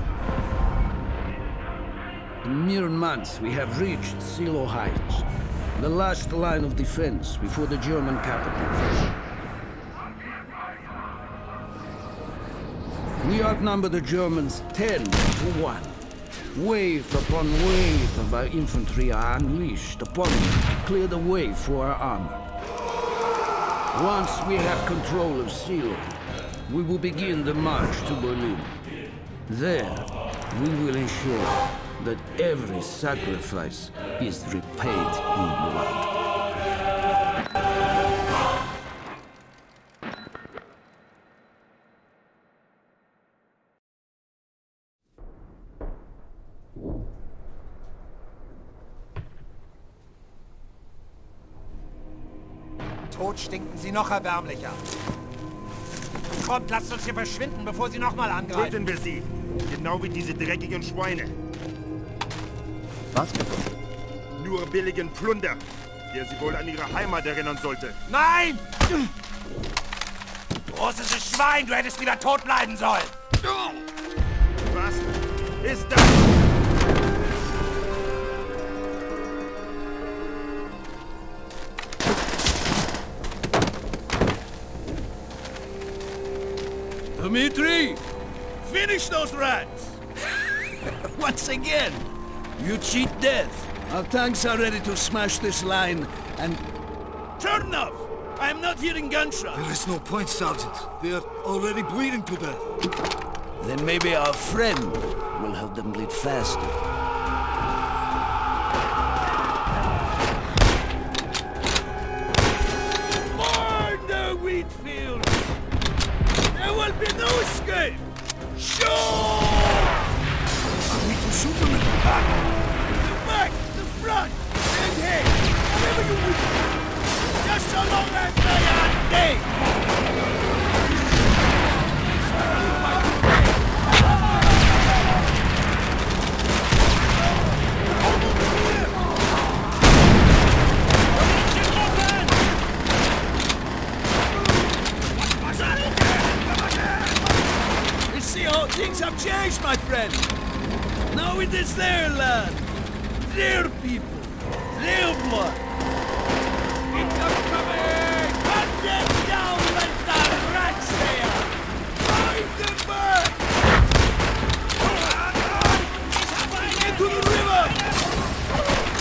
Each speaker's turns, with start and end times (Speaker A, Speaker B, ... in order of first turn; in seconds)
Speaker A: 2.4-9.0, 13.2-16.0, 16.5-22.4, 23.9-28.8, 29.5-36.2, 87.2-88.0, 88.6-90.0, 90.7-96.6, 97.4-99.7, 103.6-106.8, 113.2-115.5, 116.5-120.1, 122.8-126.7, 127.4-129.6, 141.3-142.4, 148.1-150.3, 151.1-155.6, 156.9-163.4, 166.4-167.8
Speaker B: 53.1-54.8, 56.4-58.8, 68.1-68.9, 70.7-73.2, 165.3-166.7
Speaker C: 58.5-61.4, 64.3-68.0, 73.5-73.8, 74.7-76.3
Speaker D: 99.5-102.7, 121.0-122.2